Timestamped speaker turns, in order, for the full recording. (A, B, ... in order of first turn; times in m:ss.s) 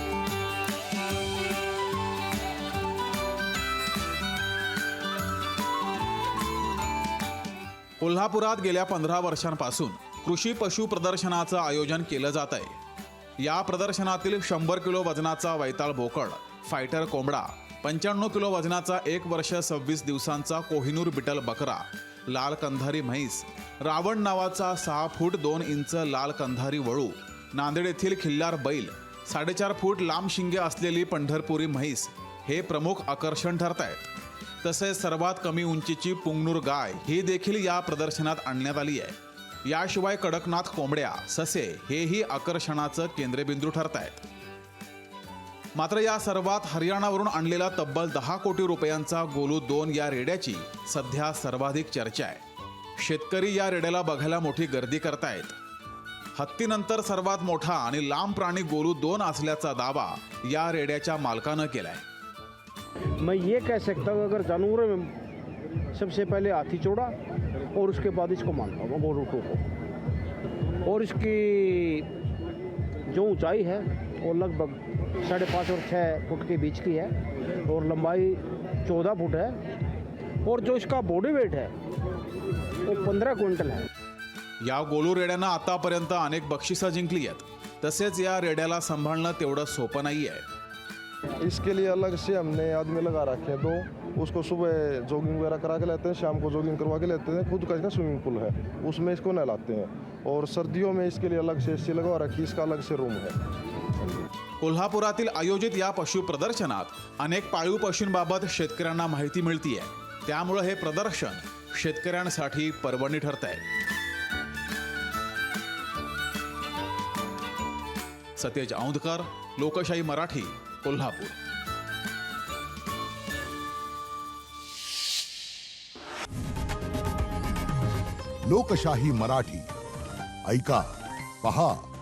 0:08.0-0:12.8 A
0:13.4-0:34.0 A
0:34.6-0:44.2 A
0:45.7-0:52.4 A
0:53.0-0:55.6 A
0:56.3-1:02.0 A
1:03.2-1:05.1 B
1:05.9-1:07.1 B
1:07.7-1:09.6 B
1:10.8-1:12.1 B
1:13.1-1:19.6 B
1:20.4-1:21.7 B
1:22.8-1:23.9 B
1:24.6-1:30.4 A
1:31.4-1:43.3 C
1:44.6-1:53.6 A
1:58.4-2:01.4 A
2:08.4-2:09.7 D
2:10.4-2:11.8 D